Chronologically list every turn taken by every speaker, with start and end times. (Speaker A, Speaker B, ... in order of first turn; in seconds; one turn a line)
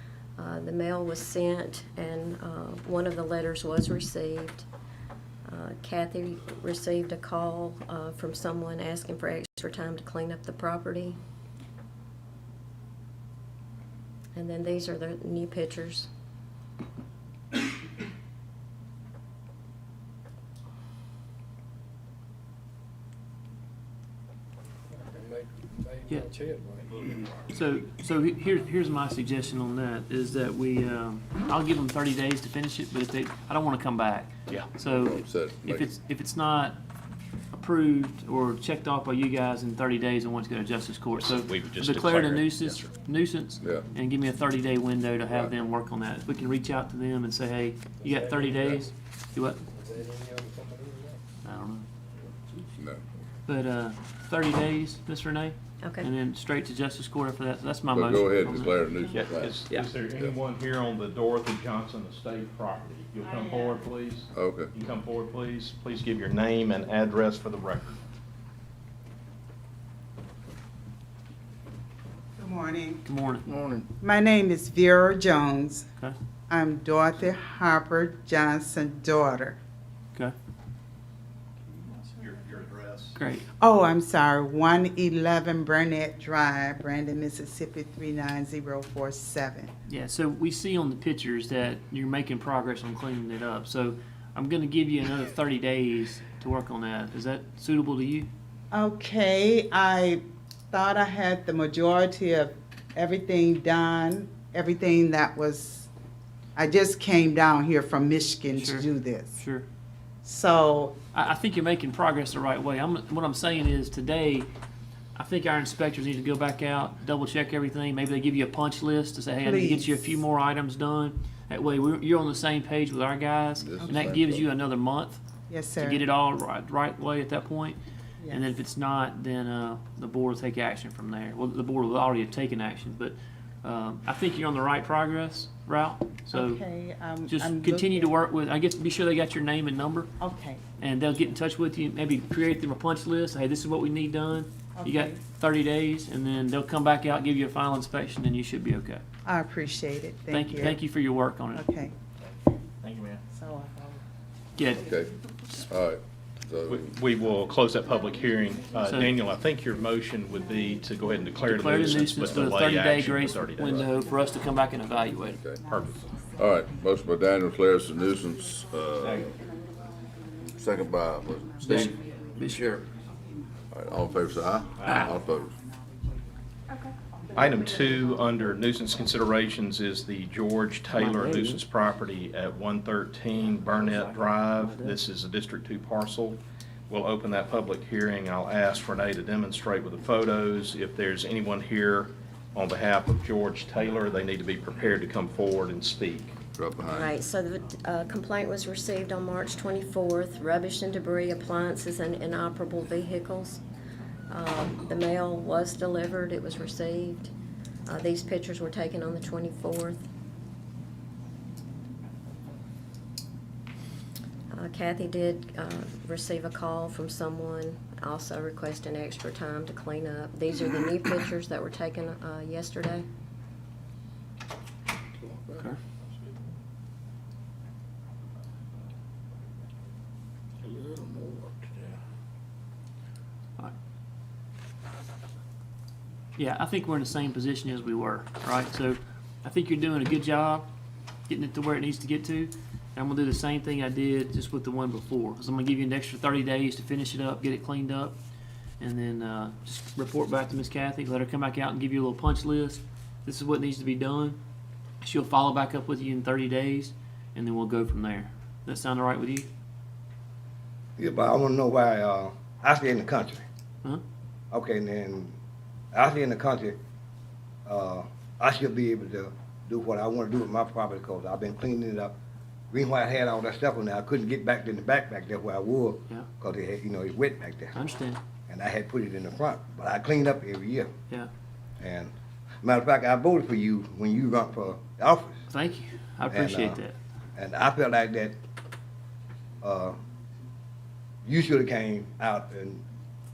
Speaker A: 0.4-4.7
Speaker A: 5.5-11.2
Speaker A: 14.4-16.1
Speaker B: 25.0-27.2
Speaker C: 27.5-36.8
Speaker D: 34.8-35.9
Speaker C: 37.5-49.6
Speaker E: 41.2-42.9
Speaker B: 48.0-48.9
Speaker B: 49.8-51.2
Speaker C: 51.5-51.9
Speaker D: 52.8-53.0
Speaker C: 53.5-59.0
Speaker A: 55.8-56.1
Speaker D: 57.9-59.6
Speaker E: 59.1-68.0
Speaker D: 64.3-64.7
Speaker F: 72.4-73.0
Speaker C: 73.1-73.5
Speaker F: 74.0-75.9
Speaker F: 76.5-79.6
Speaker E: 81.8-83.2
Speaker C: 83.2-83.4
Speaker F: 83.6-89.7
Speaker C: 89.9-98.3
Speaker F: 98.7-105.9
Speaker F: 106.6-109.4
Speaker C: 108.5-108.9
Speaker C: 109.4-109.7
Speaker F: 110.2-111.0
Speaker C: 111.1-114.5
Speaker C: 115.2-125.2
Speaker F: 119.4-120.2
Speaker D: 123.6-124.5
Speaker F: 125.5-126.1
Speaker C: 125.8-127.8
Speaker F: 128.2-128.6
Speaker C: 128.3-136.6
Speaker F: 136.3-138.1
Speaker C: 137.3-140.1
Speaker F: 140.2-140.6
Speaker C: 140.8-149.0
Speaker F: 144.8-145.2
Speaker F: 149.2-150.9
Speaker C: 150.3-151.7
Speaker F: 151.5-151.9
Speaker E: 152.8-153.2
Speaker F: 153.3-154.0
Speaker C: 154.6-154.8
Speaker D: 154.8-155.1
Speaker D: 155.7-156.9
Speaker E: 156.7-163.9
Speaker C: 161.4-165.4
Speaker D: 165.4-165.7
Speaker E: 165.7-166.0
Speaker D: 166.4-169.3
Speaker E: 169.0-169.3
Speaker D: 170.6-172.8
Speaker C: 171.7-172.6
Speaker D: 173.7-175.5
Speaker E: 174.8-175.1
Speaker E: 177.4-196.3
Speaker C: 180.9-181.6
Speaker C: 183.9-185.0
Speaker D: 196.6-197.1
Speaker A: 196.8-203.6
Speaker A: 204.3-207.3
Speaker A: 207.9-210.1
Speaker A: 214.5-223.1
Speaker B: 230.7-231.8
Speaker C: 236.4-240.7
Speaker C: 241.3-248.2
Speaker C: 248.8-254.4
Speaker C: 255.0-259.5
Speaker G: 261.0-263.4
Speaker G: 264.5-265.4
Speaker G: 265.9-266.8
Speaker G: 267.7-272.1
Speaker G: 272.7-277.7
Speaker C: 277.7-278.2
Speaker G: 278.5-280.9
Speaker G: 281.8-282.1
Speaker G: 282.6-285.4
Speaker C: 285.5-287.0
Speaker G: 286.3-286.8
Speaker G: 287.4-288.4
Speaker G: 289.6-289.9
Speaker G: 291.2-292.8